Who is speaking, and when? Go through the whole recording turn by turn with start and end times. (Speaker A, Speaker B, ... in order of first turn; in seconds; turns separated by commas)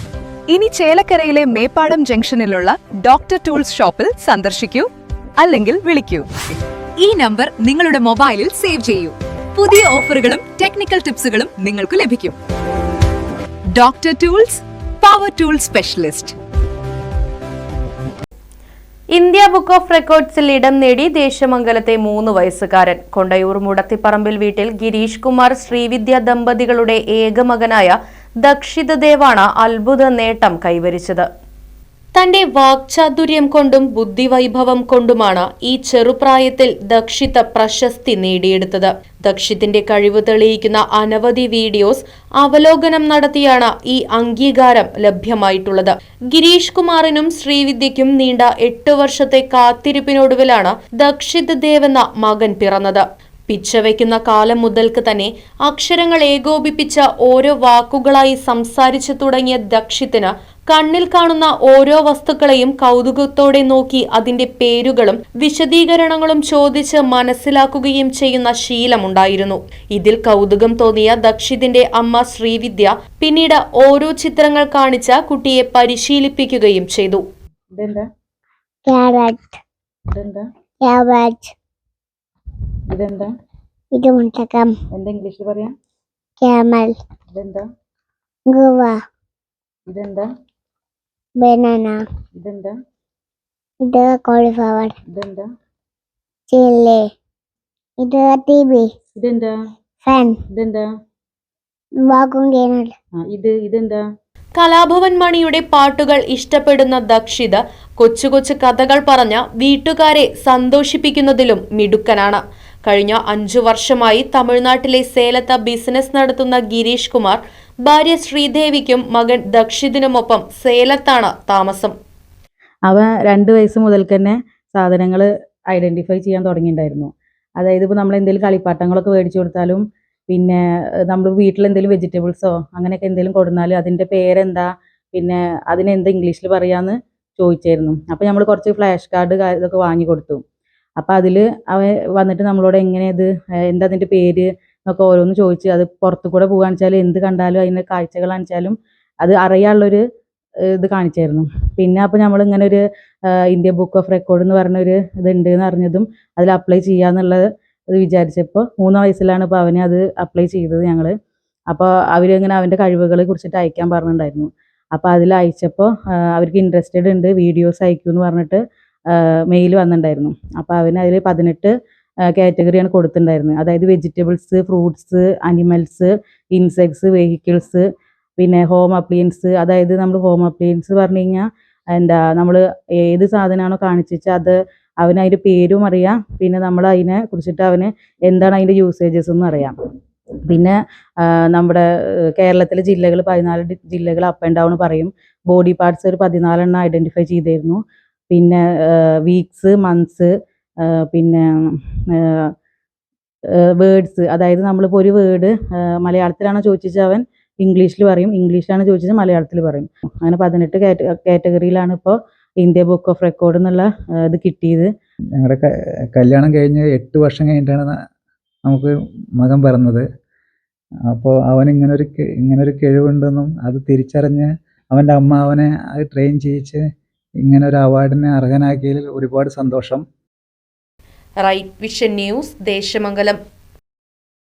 Speaker A: 0.5-6.3, Speaker A: 7.0-12.4, Speaker A: 13.8-16.4, Speaker B: 19.1-31.3, Speaker B: 32.1-77.2, Speaker C: 77.7-78.0, Speaker D: 78.9-79.6, Speaker C: 80.1-80.4, Speaker D: 80.8-81.5, Speaker C: 82.9-83.3, Speaker D: 83.9-84.7, Speaker C: 84.9-85.7, Speaker D: 86.4-87.0, Speaker C: 87.3-87.7, Speaker D: 88.5-89.0, Speaker C: 89.9-90.3, Speaker D: 91.4-92.0, Speaker C: 92.4-92.7, Speaker D: 93.8-95.0, Speaker C: 95.1-95.5, Speaker D: 96.5-97.1, Speaker D: 98.0-98.9, Speaker C: 99.2-99.5, Speaker D: 100.0-100.4, Speaker C: 100.5-100.9, Speaker D: 102.0-103.0, Speaker C: 103.2-104.0, Speaker B: 104.6-121.9, Speaker C: 122.9-130.6, Speaker C: 131.1-140.4, Speaker C: 141.0-150.0, Speaker C: 150.7-152.8, Speaker C: 153.3-161.1, Speaker C: 161.7-168.6, Speaker C: 169.1-171.7, Speaker C: 172.3-177.8, Speaker C: 178.4-189.8, Speaker C: 190.5-197.8, Speaker C: 198.3-200.3, Speaker C: 200.8-201.5, Speaker C: 202.1-202.5, Speaker C: 203.8-214.9, Speaker E: 215.4-217.9, Speaker E: 218.7-220.1, Speaker E: 221.1-226.8, Speaker E: 227.4-230.0, Speaker B: 231.4-233.4